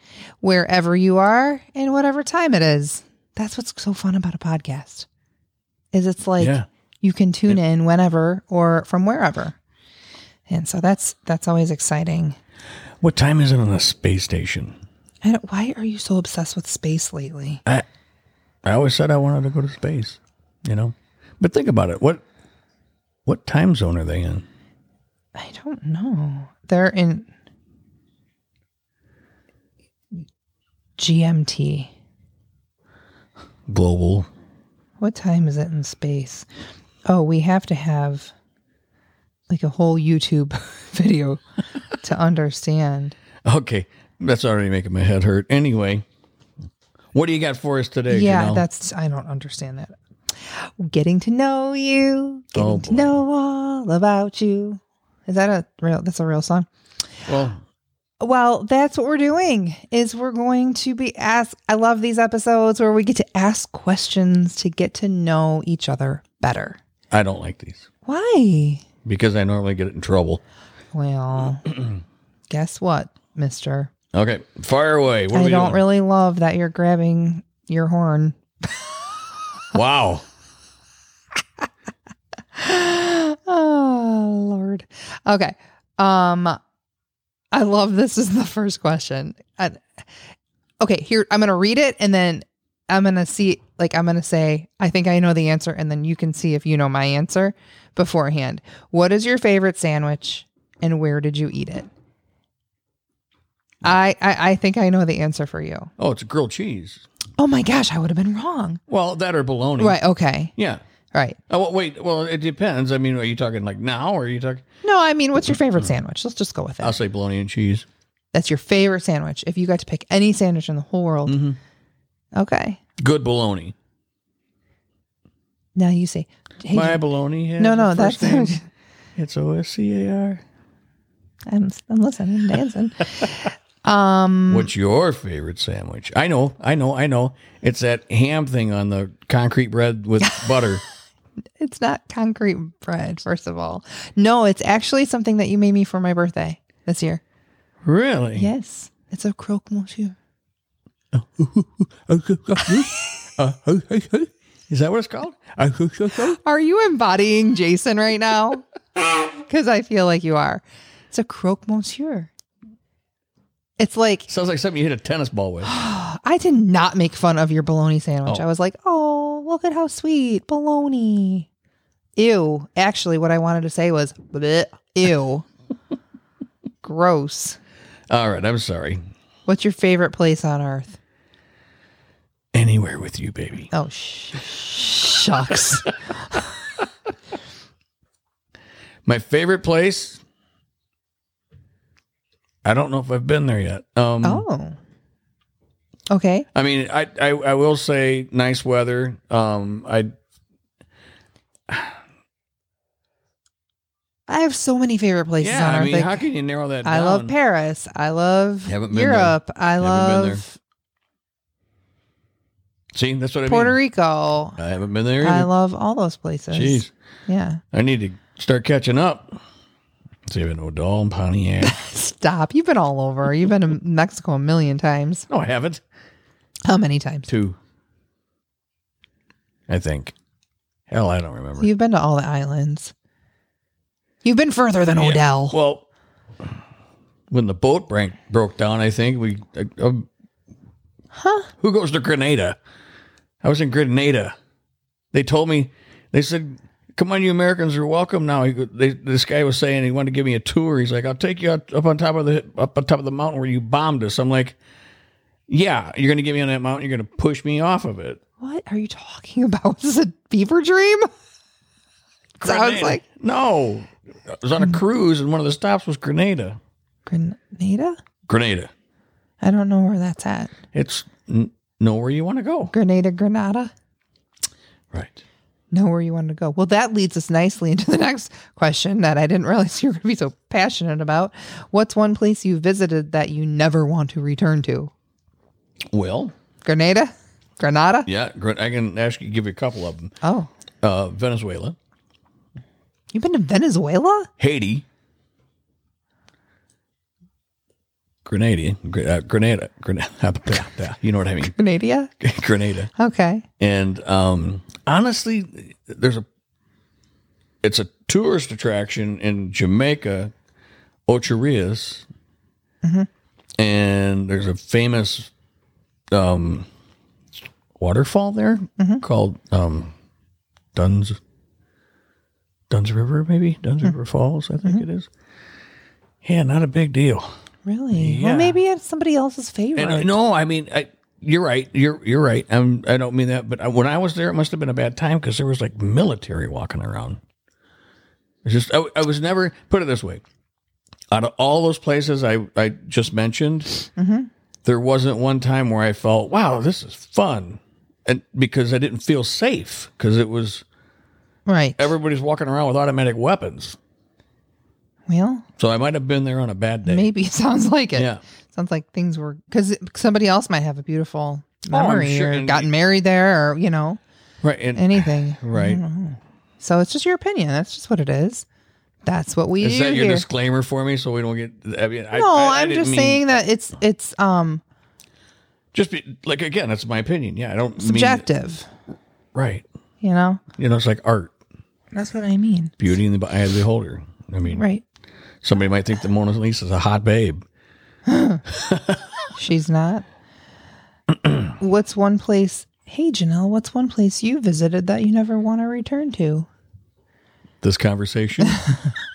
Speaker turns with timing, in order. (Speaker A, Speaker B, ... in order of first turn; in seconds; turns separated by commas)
Speaker A: 0.4-5.1, Speaker A: 5.9-9.6, Speaker B: 6.4-6.7, Speaker A: 10.5-12.3, Speaker B: 13.0-14.8, Speaker A: 15.2-17.6, Speaker B: 18.6-22.2, Speaker B: 23.2-24.4, Speaker A: 25.4-27.3, Speaker A: 31.0-31.9, Speaker B: 33.7-34.3, Speaker A: 35.0-36.5, Speaker A: 37.0-38.3, Speaker A: 39.5-41.4, Speaker A: 42.0-43.1, Speaker B: 43.4-46.0, Speaker B: 47.1-48.6, Speaker A: 48.1-56.7, Speaker B: 52.5-53.2, Speaker B: 57.3-57.6, Speaker A: 58.2-66.8, Speaker B: 67.1-67.9, Speaker A: 68.0-68.8, Speaker B: 69.0-70.4, Speaker A: 70.9-71.7, Speaker A: 72.5-73.9, Speaker B: 74.1-75.8, Speaker A: 75.3-78.9, Speaker B: 79.7-80.2, Speaker A: 82.5-86.6, Speaker A: 87.5-89.8, Speaker A: 90.8-101.9, Speaker A: 103.8-105.9, Speaker B: 106.0-107.0, Speaker A: 107.4-108.8, Speaker B: 108.9-110.0, Speaker A: 109.8-110.5, Speaker B: 110.5-110.8, Speaker A: 111.1-111.4, Speaker B: 111.5-114.6, Speaker A: 114.8-117.0, Speaker B: 116.8-117.8, Speaker A: 118.3-121.4, Speaker B: 121.2-121.6, Speaker A: 122.3-122.8, Speaker B: 123.0-123.7, Speaker A: 125.7-127.0, Speaker B: 126.7-128.6, Speaker A: 127.6-128.6, Speaker B: 129.2-130.4, Speaker A: 131.5-134.7, Speaker B: 134.5-140.8, Speaker A: 140.2-140.7, Speaker A: 141.6-147.2, Speaker B: 147.8-148.5, Speaker A: 148.3-150.2, Speaker B: 151.1-156.4, Speaker A: 156.2-158.6, Speaker A: 159.4-162.3, Speaker A: 163.8-164.3, Speaker B: 164.3-165.7, Speaker A: 165.6-171.5, Speaker A: 172.2-175.5, Speaker A: 176.8-177.6, Speaker B: 178.1-179.0, Speaker A: 179.4-181.0, Speaker B: 182.5-183.7, Speaker A: 183.7-186.4, Speaker B: 189.0-190.2, Speaker B: 192.6-194.4, Speaker A: 194.2-194.8, Speaker A: 196.1-196.5, Speaker B: 196.5-200.1, Speaker B: 201.7-202.0, Speaker A: 204.3-206.2, Speaker B: 205.4-207.3, Speaker A: 206.8-210.6, Speaker B: 208.7-210.4, Speaker B: 212.9-213.8, Speaker A: 213.4-214.6, Speaker B: 214.6-215.5, Speaker A: 215.2-217.6, Speaker B: 216.5-216.9, Speaker B: 217.7-219.3, Speaker B: 220.3-221.7, Speaker A: 221.6-225.3, Speaker B: 225.3-225.8, Speaker A: 226.7-227.3, Speaker B: 227.3-227.6, Speaker B: 229.7-230.1, Speaker B: 230.9-231.7, Speaker A: 231.6-232.9, Speaker A: 234.2-235.6, Speaker B: 234.9-235.8, Speaker B: 237.3-240.1, Speaker A: 241.1-241.5, Speaker B: 241.6-242.6, Speaker B: 243.4-244.3, Speaker B: 245.1-254.6, Speaker B: 255.5-258.2, Speaker A: 258.4-261.1, Speaker A: 262.4-263.0, Speaker B: 262.4-266.6, Speaker A: 267.1-268.0, Speaker B: 268.3-268.7, Speaker A: 269.4-270.5, Speaker B: 270.7-272.7, Speaker A: 272.7-273.7, Speaker B: 274.9-275.2, Speaker A: 275.7-284.9, Speaker B: 285.9-286.3, Speaker A: 286.6-288.1, Speaker B: 288.1-290.1, Speaker A: 290.2-290.5, Speaker B: 290.8-291.8, Speaker A: 293.1-294.3, Speaker B: 294.4-294.9, Speaker B: 298.2-301.5, Speaker A: 301.5-302.1, Speaker B: 302.2-302.9, Speaker A: 302.9-303.4, Speaker B: 303.6-306.2, Speaker B: 307.6-310.3, Speaker B: 311.1-312.1, Speaker A: 312.8-313.1, Speaker B: 313.6-315.3, Speaker B: 316.1-316.7, Speaker B: 317.8-319.9, Speaker A: 318.8-319.0, Speaker B: 320.7-321.2, Speaker B: 322.7-325.1, Speaker B: 326.2-327.3, Speaker A: 327.6-330.1, Speaker B: 327.9-328.6, Speaker B: 329.8-337.2, Speaker B: 338.4-340.2, Speaker B: 341.1-343.7, Speaker A: 343.9-344.3, Speaker B: 344.6-350.6, Speaker A: 351.5-351.9, Speaker B: 351.8-353.8, Speaker A: 355.1-355.4, Speaker B: 355.6-357.1, Speaker A: 356.9-364.0, Speaker B: 357.9-358.2, Speaker B: 361.7-362.7, Speaker B: 364.4-365.8, Speaker A: 364.7-368.4, Speaker A: 369.1-370.2, Speaker B: 369.6-373.4, Speaker A: 372.1-374.6, Speaker B: 375.7-378.3, Speaker A: 377.8-378.7, Speaker B: 379.3-379.6, Speaker A: 380.0-380.4, Speaker B: 380.6-381.3, Speaker A: 381.9-382.7, Speaker B: 382.8-384.6, Speaker A: 384.4-384.8, Speaker B: 385.4-387.4, Speaker A: 388.1-388.4, Speaker B: 388.5-389.0, Speaker A: 389.4-390.0, Speaker A: 391.6-396.5, Speaker B: 397.6-398.6